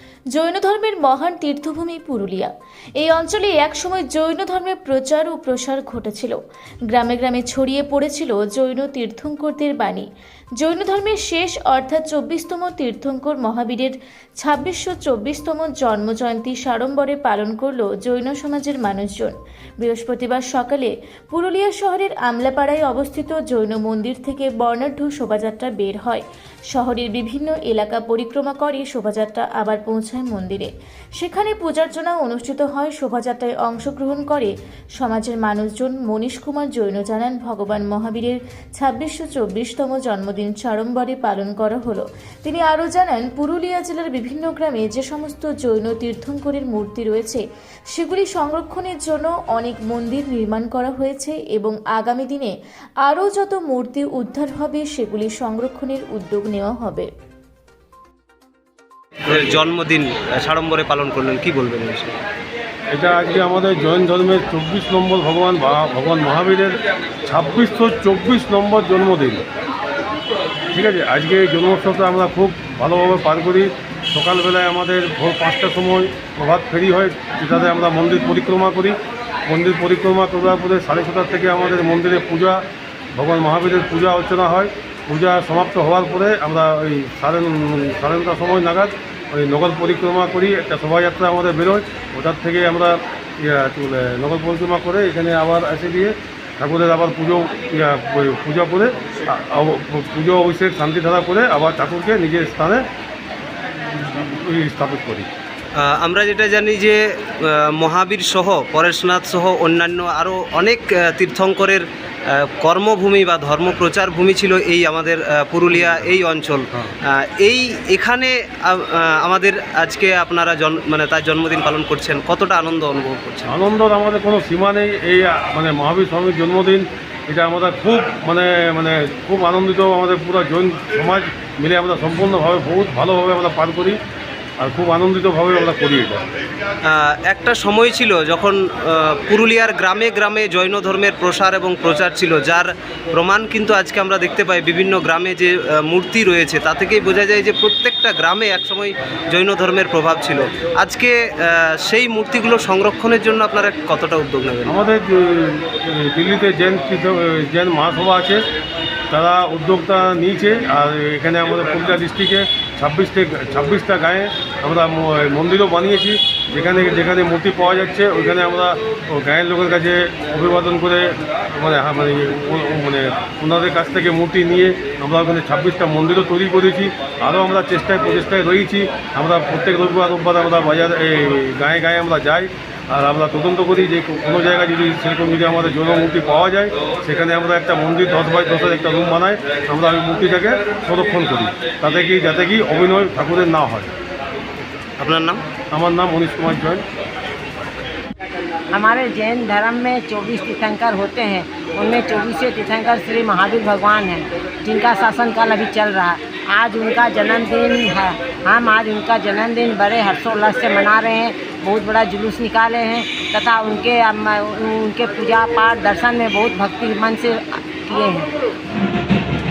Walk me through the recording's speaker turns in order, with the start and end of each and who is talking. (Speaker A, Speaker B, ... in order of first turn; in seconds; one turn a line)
Speaker A: 0.3-6.4
Speaker A: 6.9-10.1
Speaker A: 10.6-52.5
Speaker A: 53.0-57.1
Speaker B: 59.7-62.1
Speaker C: 62.9-69.4
Speaker C: 70.7-102.9
Speaker C: 104.0-105.3
Speaker B: 105.8-111.8
Speaker B: 112.4-116.7
Speaker B: 117.4-123.5
Speaker C: 123.5-134.0
Speaker C: 134.6-136.2
Speaker B: 137.0-154.7
Speaker C: 154.7-158.4
Speaker C: 159.1-193.9
Speaker B: 195.0-195.4
Speaker C: 195.7-196.8
Speaker D: 198.7-218.3